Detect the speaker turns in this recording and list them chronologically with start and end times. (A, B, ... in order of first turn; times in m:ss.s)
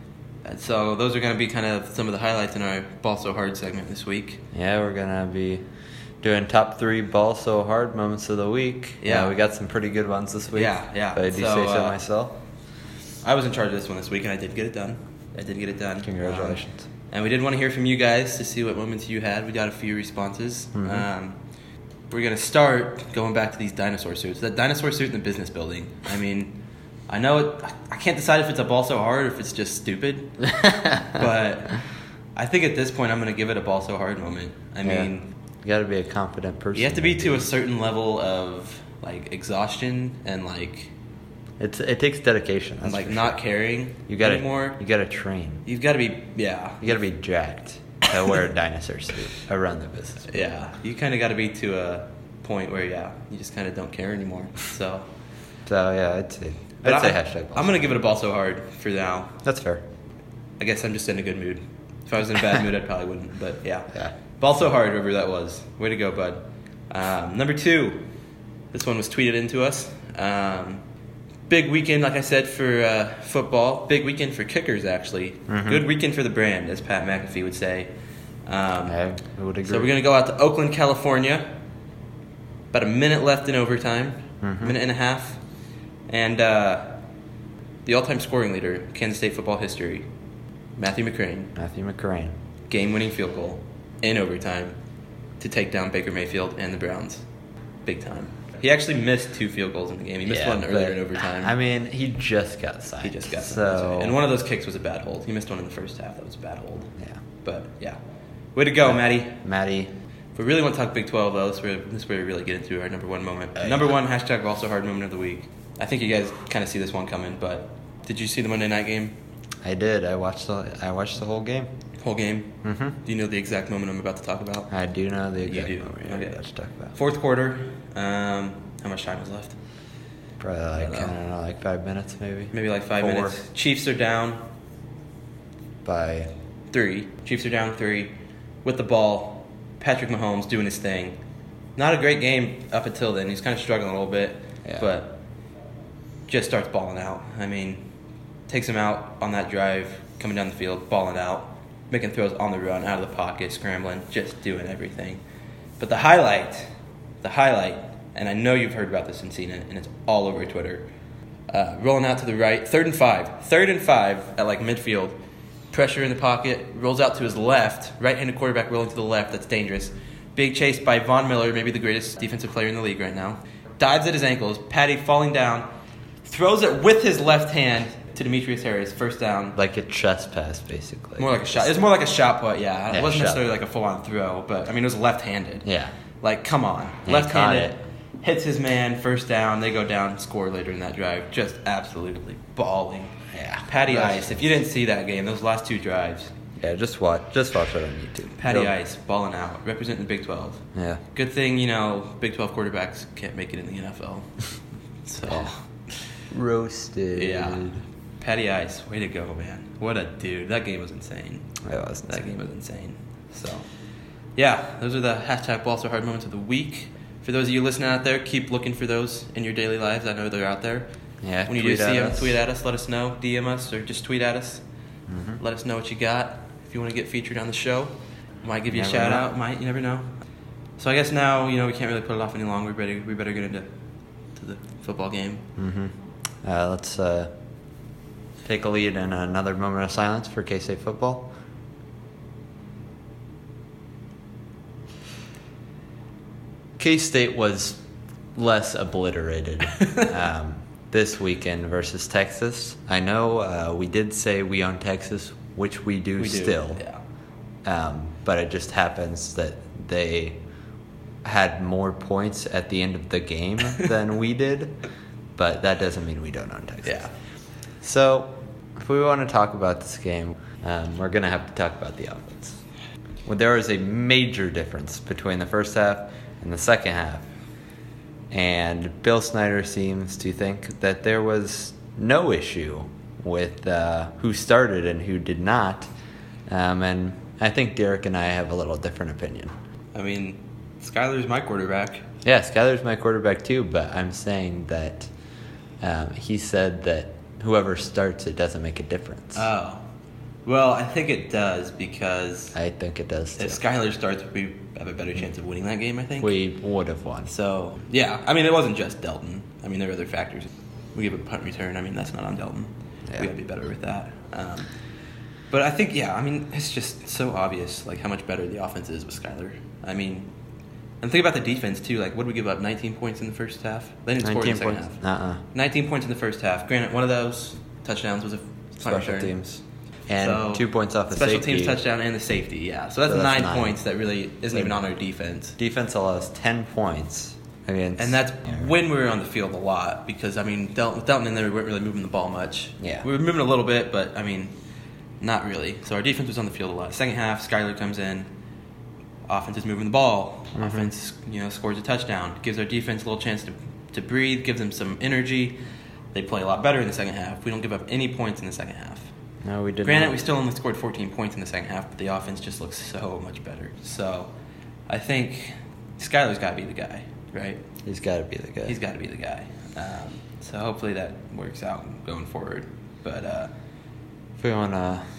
0:00.4-0:04.4 A
0:04.5-0:05.6 B
0:06.2-0:12.4 B
0:09.0-0:09.4 A
0:10.5-0:12.0 A
0:13.2-0:21.4 A
0:16.0-0:16.8 B
0:20.8-0:21.1 B
0:22.1-0:26.6 A
0:27.1-0:31.8 A
0:30.5-0:31.2 B
0:32.4-0:35.3 A
0:34.8-0:35.1 B
0:35.6-0:37.5 B
0:36.8-0:40.9 A
0:41.6-0:43.4 B
0:42.8-0:44.8 A
0:44.1-0:45.6 B
0:45.6-0:47.0 A
0:46.8-0:50.4 B
0:50.3-0:55.1 A
0:55.7-0:57.8 B
0:56.8-0:59.3 A
0:59.4-0:59.8 B
1:00.6-1:08.1 A
1:08.7-1:10.8 A
1:11.5-1:17.9 A
1:15.5-1:15.8 B
1:18.5-1:19.0 A
1:18.9-1:19.9 B
1:19.6-1:21.5 A
1:22.7-1:25.4 A
1:24.4-1:24.8 B
1:26.1-1:27.0 A
1:27.9-1:30.0 A
1:30.8-1:31.5 A
1:31.6-1:32.3 B
1:32.7-1:34.8 A
1:35.4-1:37.2 A
1:37.9-1:41.5 A
1:40.3-1:44.2 B
1:43.0-1:46.9 A
1:47.4-1:48.0 A
1:48.6-1:49.4 A
1:48.8-1:49.9 B
1:50.4-1:59.1 A
1:59.6-2:01.7 B
2:02.0-2:04.7 A
2:02.6-2:03.0 B
2:04.7-2:06.9 B
2:05.4-2:06.4 A
2:06.9-2:09.6 A
2:10.4-2:13.4 B
2:10.8-2:11.1 A
2:12.5-2:14.4 A
2:15.8-2:16.3 B
2:16.7-2:18.1 A
2:18.6-2:21.2 A
2:21.8-2:25.2 A
2:24.6-2:24.9 B
2:26.3-2:27.8 A
2:28.5-2:35.2 A
2:35.8-2:36.7 A
2:37.2-2:40.9 A
2:41.5-2:45.2 A
2:45.7-2:55.7 A
2:56.2-2:59.6 A
2:59.6-3:01.8 B
3:01.2-3:05.7 A
3:02.9-3:03.4 B
3:05.6-3:05.9 B
3:06.2-3:13.2 A
3:07.1-3:07.8 B
3:13.3-3:14.4 B
3:13.7-3:16.3 A
3:16.6-3:18.8 B
3:18.4-3:20.6 A
3:20.8-3:21.0 B
3:21.1-3:24.3 A
3:25.1-3:25.6 A
3:26.3-3:27.8 B
3:27.2-3:31.5 A
3:31.6-3:32.3 B
3:32.1-3:33.6 A
3:34.4-3:40.9 A
3:41.2-3:42.4 B
3:41.5-3:44.6 A
3:45.1-3:45.4 B
3:45.4-3:50.1 A
3:48.7-3:49.3 B
3:50.8-3:53.7 A
3:54.4-3:55.4 A
3:55.6-3:57.3 B
3:58.4-4:01.3 B
4:06.8-4:07.8 B
4:08.4-4:16.8 B
4:16.2-4:17.0 A
4:17.6-4:20.4 B
4:21.2-4:24.8 B
4:25.4-4:27.1 B
4:26.8-4:27.1 A
4:27.8-4:32.6 B
4:33.3-4:37.3 B
4:38.3-4:45.9 B
4:46.5-4:49.5 B
4:49.9-4:52.1 A
4:52.2-4:55.1 B
4:55.8-4:59.5 B
4:59.4-4:59.8 A
5:00.5-5:02.6 A
5:02.6-5:03.6 B
5:03.4-5:06.4 A
5:06.2-5:07.3 B
5:07.3-5:14.7 A
5:15.5-5:20.3 A
5:21.0-5:25.0 A
5:24.2-5:25.4 B
5:25.5-5:29.3 A
5:28.8-5:31.8 B
5:30.2-5:35.6 A
5:33.1-5:33.8 B
5:35.6-5:38.7 B
5:38.0-5:44.5 A
5:42.8-5:43.1 B
5:45.2-5:48.3 A
5:49.3-5:55.6 A
5:50.6-5:50.9 B
5:56.1-5:59.1 A
5:59.4-6:00.2 B
5:59.8-6:04.3 A
6:04.9-6:07.6 A
6:07.8-6:08.8 B
6:08.7-6:13.5 A
6:14.4-6:15.0 B